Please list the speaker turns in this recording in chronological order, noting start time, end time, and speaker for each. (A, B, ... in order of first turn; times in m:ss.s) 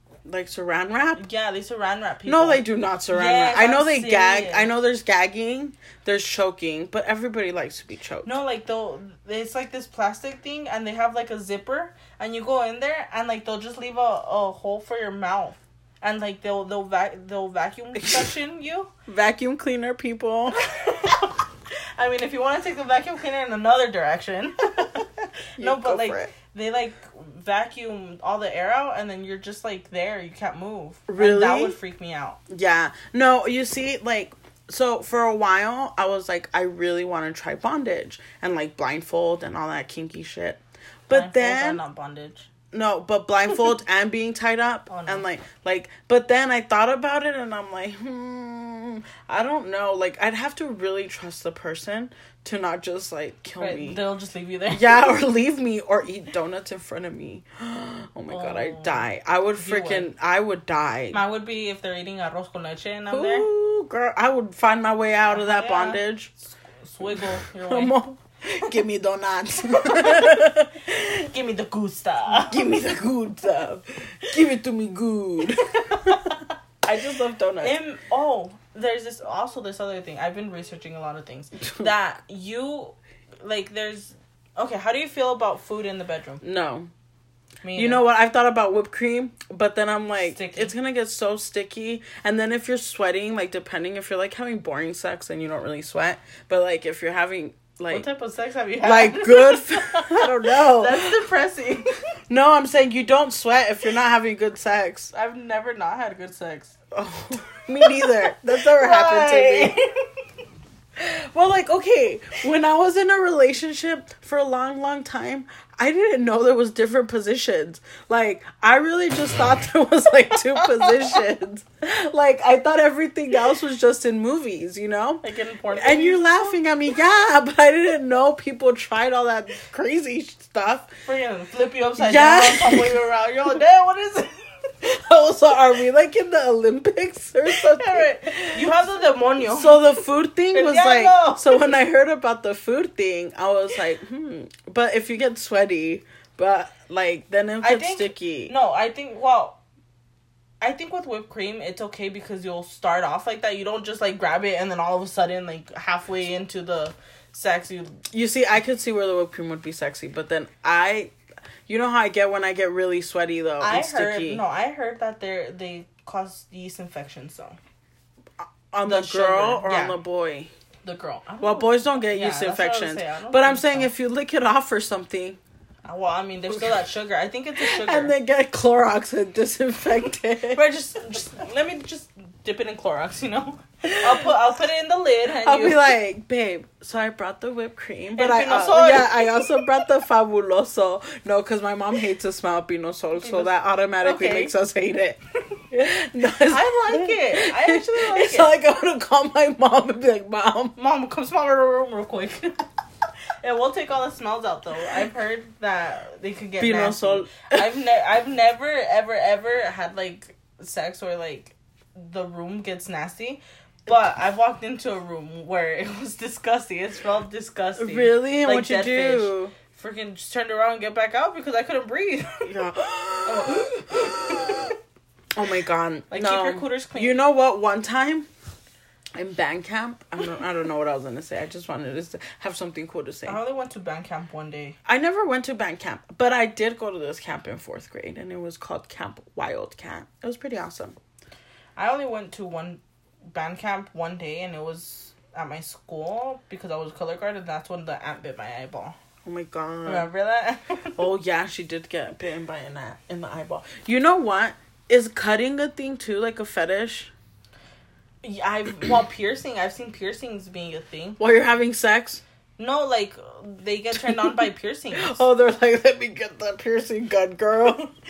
0:00.2-0:01.2 A
0:01.2-0:04.7 B
0:02.2-0:08.3 A
0:08.2-0:18.9 B
0:18.0-0:18.3 A
0:19.1-0:20.6 A
0:20.6-0:21.4 B
0:22.0-0:32.4 B
0:25.6-0:26.3 A
0:31.1-0:31.8 A
0:32.5-0:41.8 A
0:41.1-0:42.5 B
0:42.7-0:54.0 A
0:44.9-0:45.2 B
0:53.6-0:55.1 B
0:54.7-1:01.2 A
0:58.3-0:59.0 B
0:59.6-1:00.1 B
1:01.1-1:03.5 B
1:03.1-1:06.3 A
1:05.3-1:07.9 B
1:07.1-1:11.1 A
1:09.7-1:12.6 B
1:12.4-1:16.3 A
1:15.5-1:16.4 B
1:16.8-1:17.8 A
1:17.6-1:26.4 B
1:26.4-1:26.9 A
1:27.6-1:28.0 B
1:27.7-1:38.1 A
1:30.2-1:30.7 B
1:37.9-1:42.0 B
1:38.8-1:41.1 A
1:42.3-1:45.1 A
1:45.1-1:46.7 B
1:46.9-1:49.8 A
1:47.8-1:50.0 B
1:51.0-2:10.9 A
2:00.6-2:00.9 B
2:05.2-2:06.6 B
2:11.0-2:14.3 B
2:12.0-2:13.0 A
2:14.8-2:18.7 A
2:17.5-2:19.8 B
2:19.4-2:28.5 A
2:20.5-2:21.7 B
2:27.6-2:29.6 B
2:30.6-2:38.0 B
2:38.1-2:41.1 A
2:41.7-2:44.4 A
2:43.6-2:47.6 B
2:48.4-2:50.5 A
2:48.8-2:50.0 B
2:50.8-2:53.9 B
2:51.4-2:55.4 A
2:55.8-2:58.1 B
2:57.6-3:00.6 A
3:00.5-3:06.0 B
3:05.3-3:15.2 A
3:08.2-3:09.8 B
3:13.2-3:14.5 B
3:15.7-3:20.8 A
3:16.4-3:18.5 B
3:20.8-3:22.6 B
3:23.4-3:42.5 B
3:26.6-3:27.8 A
3:37.8-3:39.5 A
3:42.4-3:44.7 A
3:43.2-3:44.7 B
3:45.3-3:48.3 A
3:46.1-3:47.2 B
3:49.1-3:53.4 A
3:53.2-3:54.8 B
3:54.8-4:01.0 A
4:01.8-4:02.8 B
4:03.3-4:09.0 B
4:09.2-4:10.1 A
4:09.8-4:11.0 B
4:11.0-4:17.1 A
4:18.2-4:21.2 B
4:21.2-4:22.2 A
4:22.6-4:25.2 B
4:24.0-4:24.3 A
4:24.9-4:27.9 A